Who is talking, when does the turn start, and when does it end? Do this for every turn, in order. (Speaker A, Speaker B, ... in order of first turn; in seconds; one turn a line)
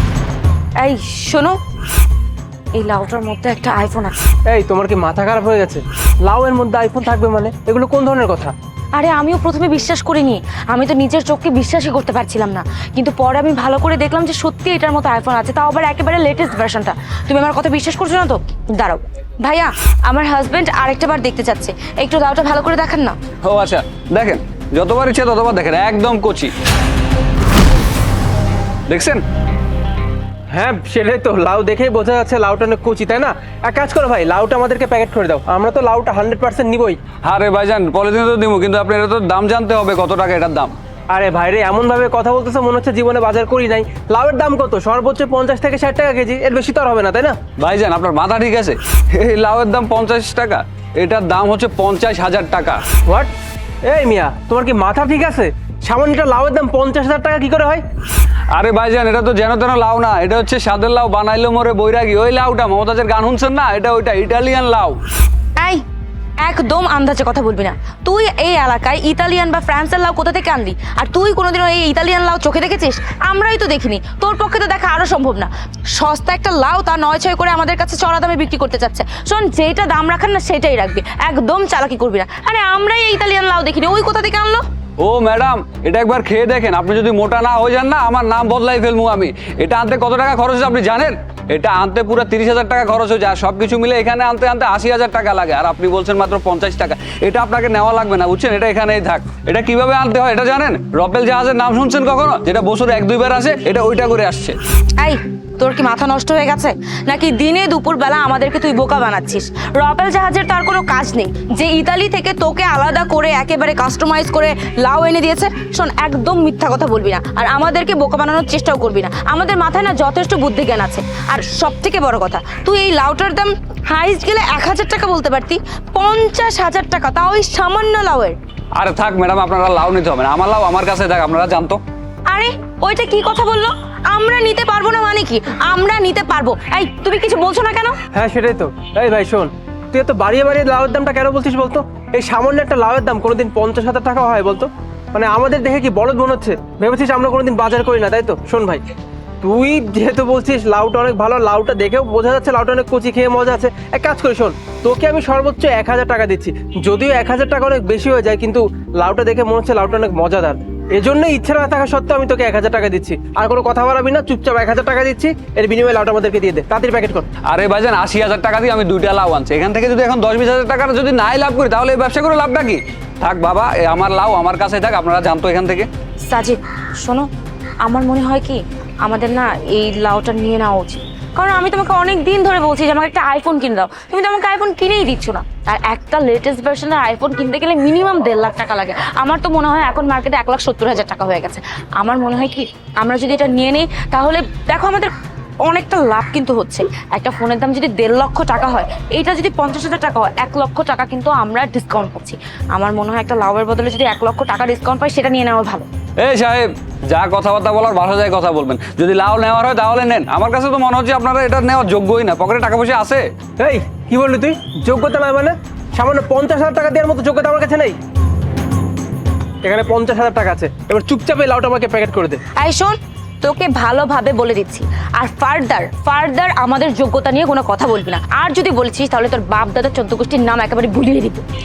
Speaker A: 0.8-1.6
Speaker A: 2.7-4.2
Speaker B: 4.5-8.5
Speaker A: 8.9-23.1
Speaker C: 23.4-26.5
Speaker C: 28.9-29.2
Speaker B: 30.5-37.0
Speaker C: 37.2-40.7
Speaker B: 41.1-47.4
Speaker C: 47.6-52.8
Speaker B: 53.0-53.3
Speaker B: 53.8-57.8
Speaker C: 58.5-65.0
Speaker A: 65.6-65.8
Speaker A: 66.4-84.6
Speaker C: 85.0-104.6
Speaker A: 105.0-128.4
Speaker C: 128.8-131.8
Speaker A: 132.3-138.0
Speaker B: 138.1-148.8
Speaker B: 149.4-167.3
Speaker C: 167.5-175.9
Speaker A: 176.3-177.3
Speaker A: 177.8-195.1
Speaker A: 195.6-205.8
Speaker C: 206.2-213.2
Speaker B: 213.6-217.9
Speaker B: 219.6-222.4
Speaker A: 222.6-231.4